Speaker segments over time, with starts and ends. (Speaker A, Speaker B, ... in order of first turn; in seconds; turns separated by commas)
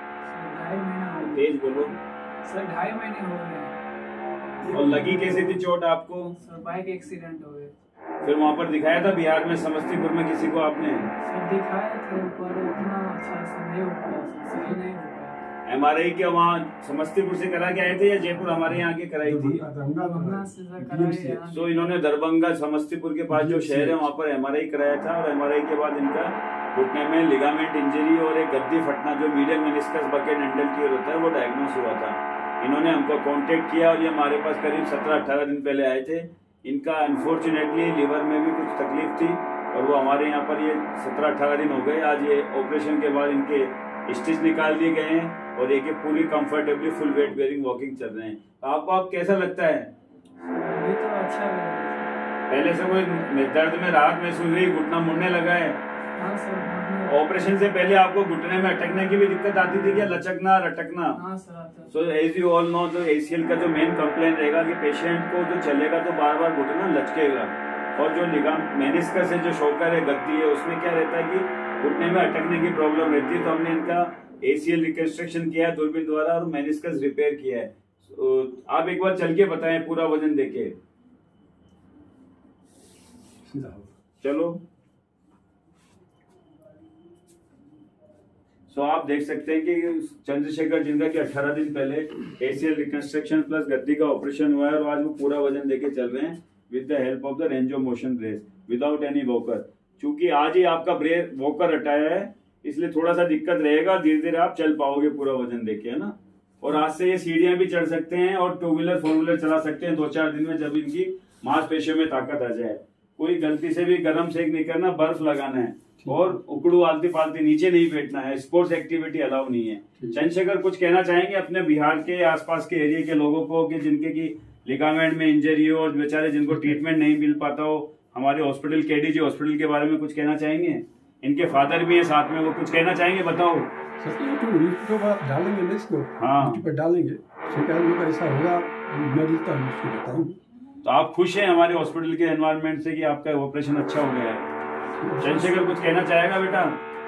Speaker A: 0.3-1.9, Speaker B: 1.2-1.9, Speaker A: 2.4-3.8, Speaker C: 4.6-5.0, Speaker B: 4.7-6.3, Speaker A: 6.3-7.7, Speaker B: 8.2-11.1, Speaker A: 11.2-15.4, Speaker B: 15.6-19.6, Speaker C: 18.7-21.4, Speaker A: 20.0-22.0, Speaker B: 21.5-49.9, Speaker C: 23.3-24.1, Speaker A: 50.4-52.1, Speaker B: 52.5-55.8, Speaker A: 56.1-57.2, Speaker B: 57.1-61.2, Speaker A: 61.1-61.9, Speaker B: 61.9-80.7, Speaker C: 83.5-83.9, Speaker B: 84.2-84.6, Speaker B: 88.7-133.7, Speaker C: 126.5-126.8, Speaker C: 134.0-140.4, Speaker B: 136.2-136.6, Speaker B: 140.8-144.4, Speaker C: 145.0-145.3, Speaker B: 145.2-146.8